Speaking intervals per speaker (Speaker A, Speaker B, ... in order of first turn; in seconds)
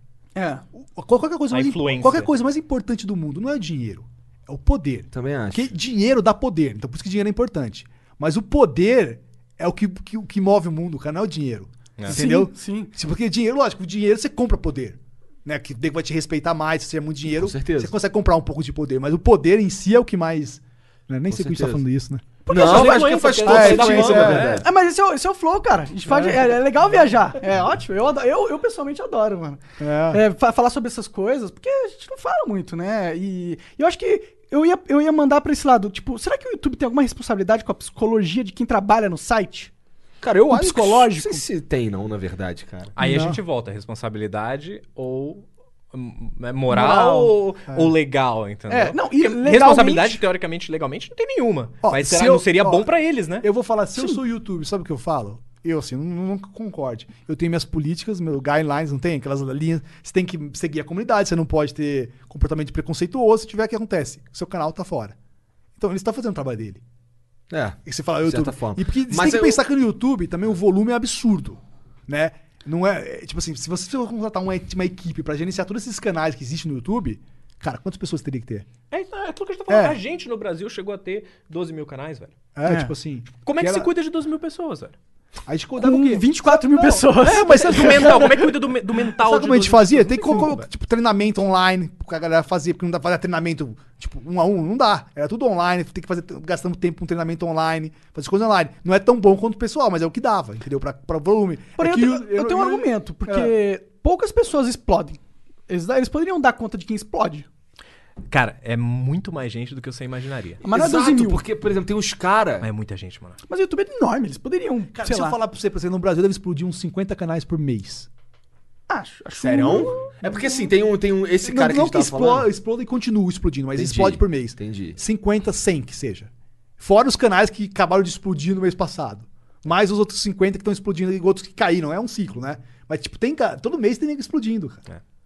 Speaker A: 0.3-0.6, 12.1-12.9, 22.4-39.7, 40.5-41.5, 48.7-50.2, 82.6-82.9, 85.8-88.5, 101.8-107.5, 110.6-111.4, 113.5-115.4, 118.9-120.1
Speaker B: 0.7-22.2, 23.4-24.6, 26.1-26.5, 29.8-30.2, 43.0-43.4, 46.7-47.9, 51.8-65.1, 65.8-66.8, 67.8-78.7, 79.7-80.0, 82.5-83.9, 85.5-88.5, 89.0-103.5, 114.9-118.1, 121.4-134.8
Speaker C: 1.5-2.3, 22.5-24.6, 43.0-53.5, 78.9-82.3, 83.4-84.9, 87.2-90.6, 108.3-110.6, 112.6-113.4
Speaker D: 5.1-5.7, 17.3-17.9, 21.3-21.8, 22.5-24.6, 40.2-42.9, 67.5-69.6, 110.6-112.7, 119.4-122.5, 123.8-125.0